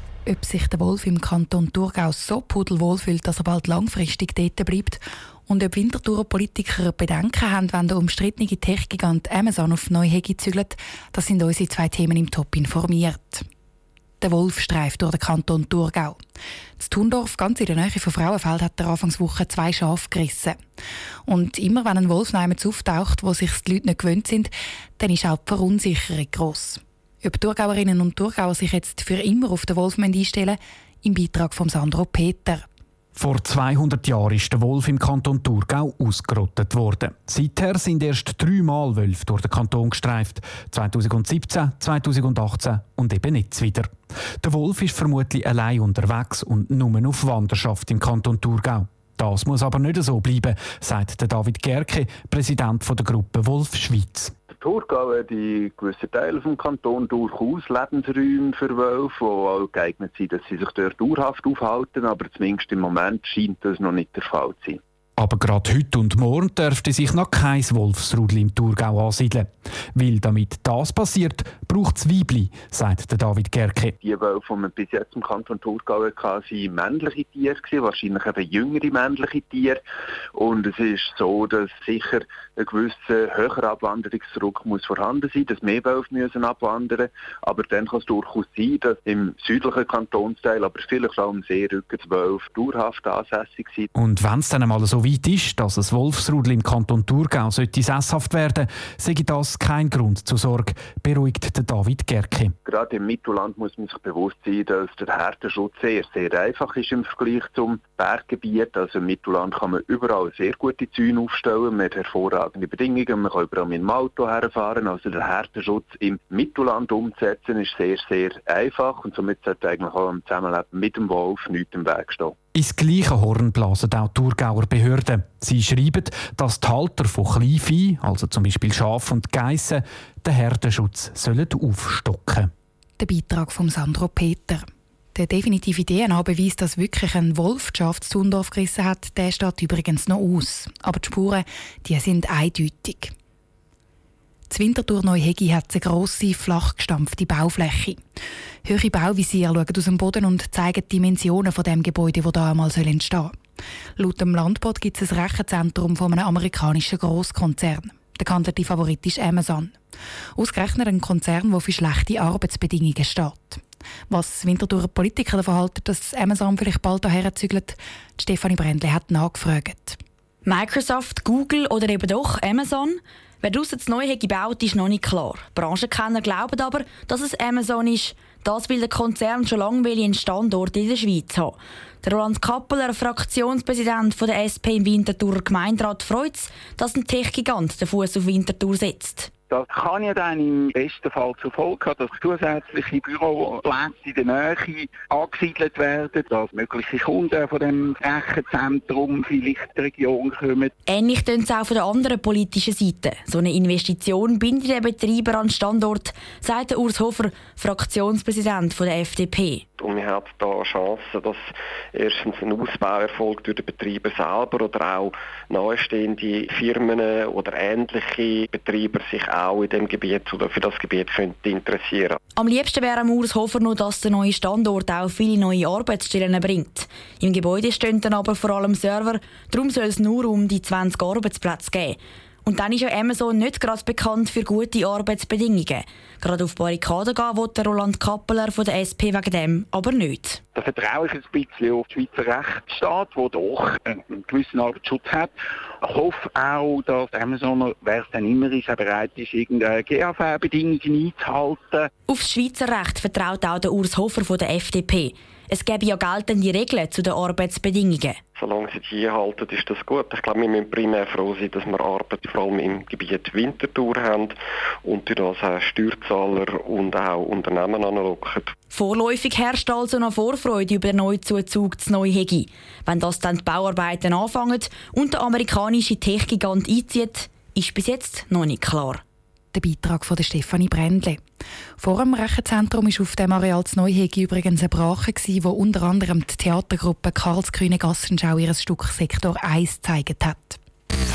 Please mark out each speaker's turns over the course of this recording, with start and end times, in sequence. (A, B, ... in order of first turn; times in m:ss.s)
0:00.2-0:13.4 A
0:14.2-0:16.2 A
0:16.8-0:20.6 A
0:21.3-0:32.6 A
0:33.2-0:43.9 B
0:44.4-0:54.3 B
0:54.5-1:04.8 C
1:05.2-1:13.9 B
1:14.0-1:19.8 C
1:20.3-1:33.9 C
1:33.9-1:42.5 B
1:42.6-2:02.3 C
2:02.5-2:12.5 B
2:13.0-2:23.1 A
2:24.5-2:28.0 A
2:28.6-2:33.3 A
2:34.0-2:39.8 A
2:40.4-2:50.0 A
2:50.4-3:09.3 D
3:09.5-3:20.7 E
3:20.9-3:29.6 D
3:29.8-3:42.2 F
3:42.4-4:00.4 D
4:00.5-4:11.9 E
4:12.1-4:18.2 D
4:18.4-4:28.5 F
4:28.7-4:39.0 D
4:39.5-4:41.2 A
4:41.8-4:50.6 A